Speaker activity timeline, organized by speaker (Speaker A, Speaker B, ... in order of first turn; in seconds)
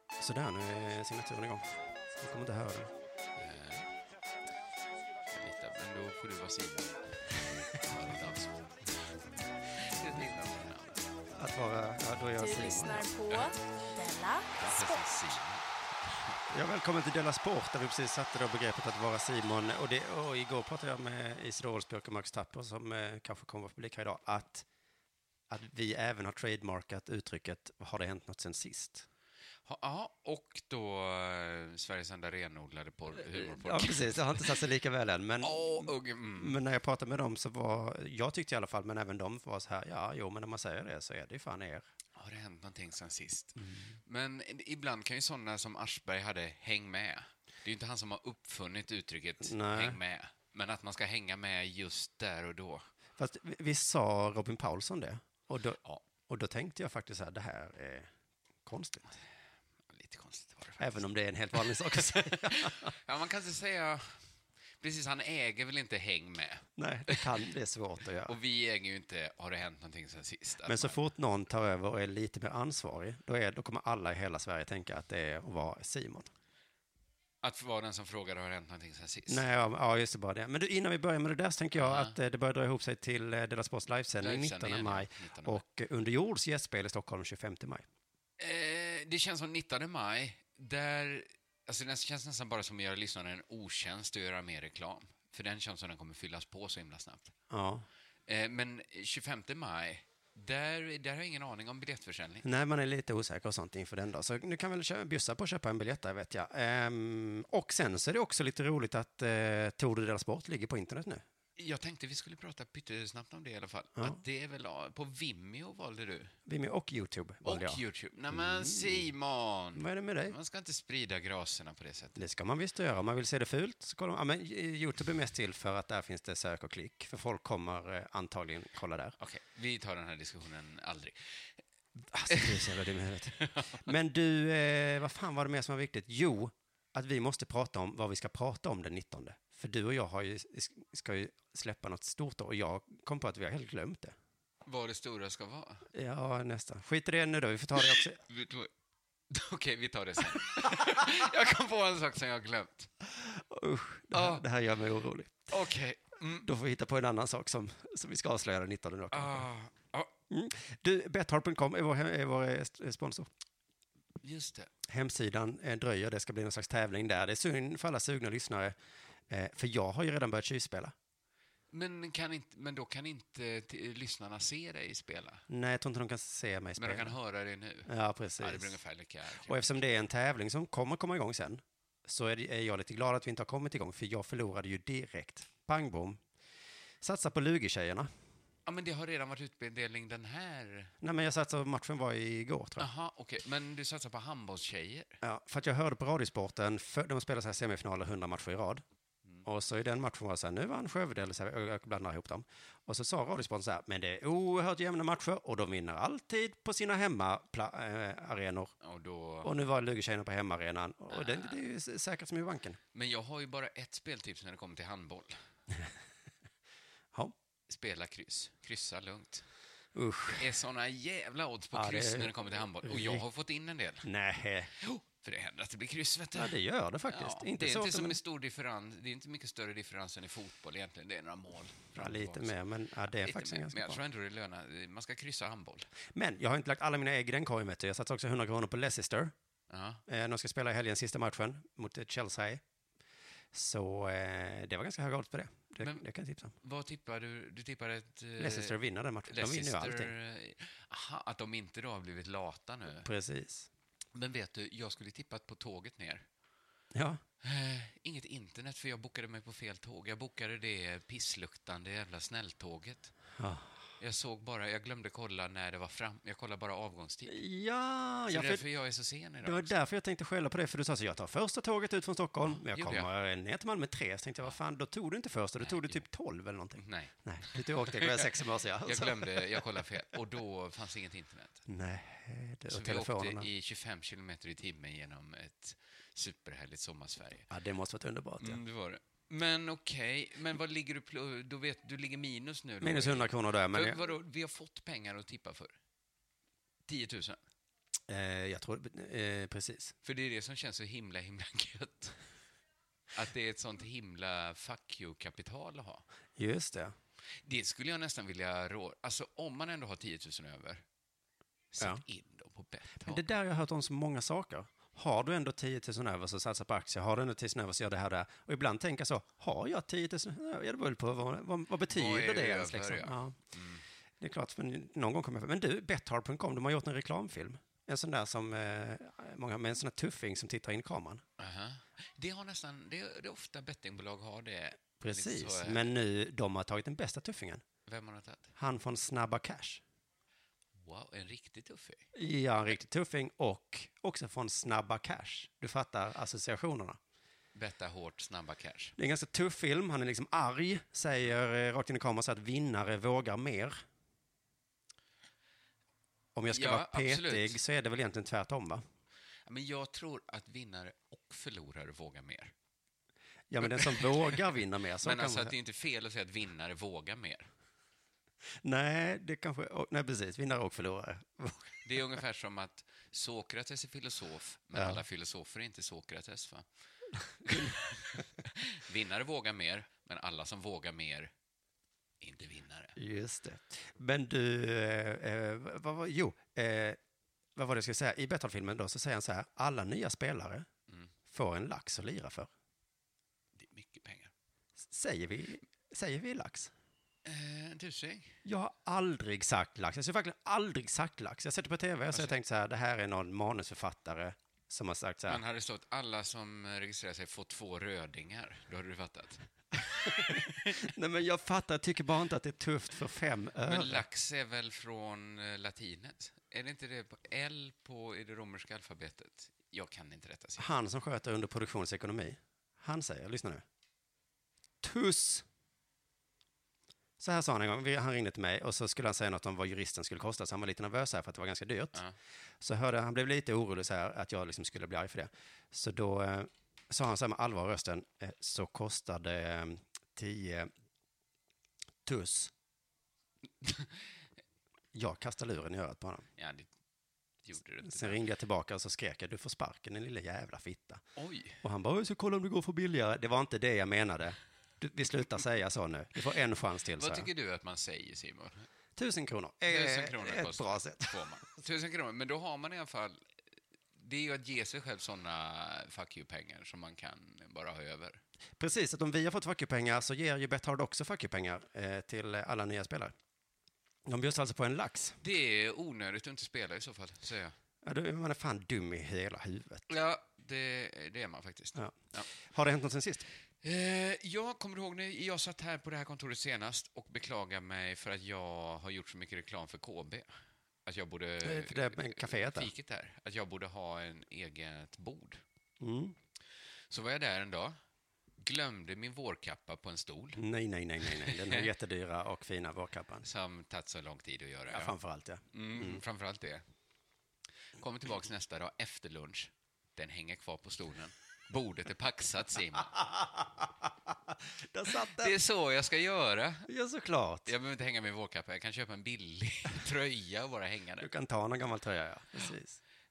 Speaker A: 0.2-2.9, 11.3-13.1, 16.5-24.7, 25.5-29.1, 33.3-41.9, 49.4-50.0, 53.2-58.1, 58.6-59.1, 60.8-62.9, 66.8-68.4, 70.7-76.3, 79.3-87.8, 97.5-97.9, 102.4-111.2, 116.5-117.8, 118.3-119.1, 119.7-120.4, 122.2-129.2, 132.0-144.2, 145.9-148.2, 153.1-155.4, 156.4-159.4, 160.3-163.3, 164.9-168.8, 169.3-170.9, 175.5-177.1, 177.9-178.8, 179.4-186.2, 187.0-188.1, 191.0-192.9, 195.2-198.8, 199.4-208.7, 209.4-212.8, 219.9-220.5, 221.7-223.3, 224.0-224.7, 226.3-228.2, 231.9-234.0, 236.1-239.3, 240.1-242.6, 243.5-246.6, 248.4-250.1, 253.0-253.7, 256.9-257.2, 263.4-263.7, 267.3-268.6, 269.4-279.8, 281.7-283.5, 287.5-288.6, 292.8-294.0, 298.1-299.9, 306.4-306.9, 313.0-323.4, 324.2-331.2, 335.0-337.6, 338.6-339.8, 342.1-347.0, 349.0-353.8, 356.4-358.8, 363.5-365.5, 368.6-372.0, 374.7-375.0, 377.4-377.8, 383.0-387.0, 387.6-390.7, 391.3-392.5, 394.9-396.7, 398.4-405.4, 410.1-414.0, 420.6-423.6, 424.8-425.4, 427.2-432.0, 432.6-440.7, 442.1-442.5, 444.9-446.3, 447.8-451.0, 451.6-457.3, 459.0-461.2, 468.6-473.1, 474.1-475.2, 477.8-479.9, 481.8-483.3, 491.4-492.7, 495.8-496.1, 500.4-503.3, 504.7-506.0, 512.9-515.4, 516.7-517.5, 521.0-522.8
Speaker B: 3.4-3.9, 5.3-8.9, 9.8-11.0, 14.6-16.4, 29.7-34.6, 35.4-36.6, 42.2-52.9, 59.9-60.9, 61.6-64.2, 64.8-67.3, 68.3-71.0, 77.4-79.4, 81.8-82.2, 84.2-85.6, 88.4-97.3, 98.3-102.5, 111.6-116.3, 117.4-122.2, 129.2-131.5, 132.3-132.7, 133.4-133.8, 144.7-145.9, 148.0-148.7, 149.3-152.9, 154.1-154.4, 155.5-156.5, 159.1-160.1, 164.2-164.7, 171.7-175.4, 176.8-179.7, 188.7-190.9, 192.8-195.2, 208.8-209.5, 211.1-211.6, 212.9-215.4, 217.7-219.4, 220.3-224.1, 224.8-226.6, 227.1-232.5, 233.2-235.9, 239.7-240.0, 246.6-248.8, 249.3-253.1, 254.2-256.3, 257.4-263.1, 264.0-267.4, 268.3-269.7, 272.5-273.1, 275.6-276.0, 276.8-278.2, 278.8-281.6, 282.7-287.5, 288.4-295.8, 296.9-297.4, 300.0-302.2, 303.1-306.0, 307.4-310.8, 311.7-313.3, 321.9-323.8, 331.4-335.9, 337.9-338.5, 340.8-342.1, 347.6-349.0, 356.5-357.6, 359.5-362.5, 363.6-364.4, 365.0-367.5, 371.8-376.6, 377.4-381.3, 382.2-383.0, 393.6-394.3, 397.2-398.4, 405.3-410.8, 413.7-420.7, 443.6-444.0, 446.4-446.7, 447.4-448.2, 451.2-451.6, 457.0-458.7, 459.7-463.3, 464.0-468.2, 475.2-477.6, 479.9-482.3, 483.6-490.3, 490.9-495.4, 496.9-497.8, 498.4-500.4, 501.0-501.7, 503.2-504.9, 505.5-506.6, 507.8-513.0, 515.0-516.7, 517.5-521.1
Speaker C: 12.4-15.4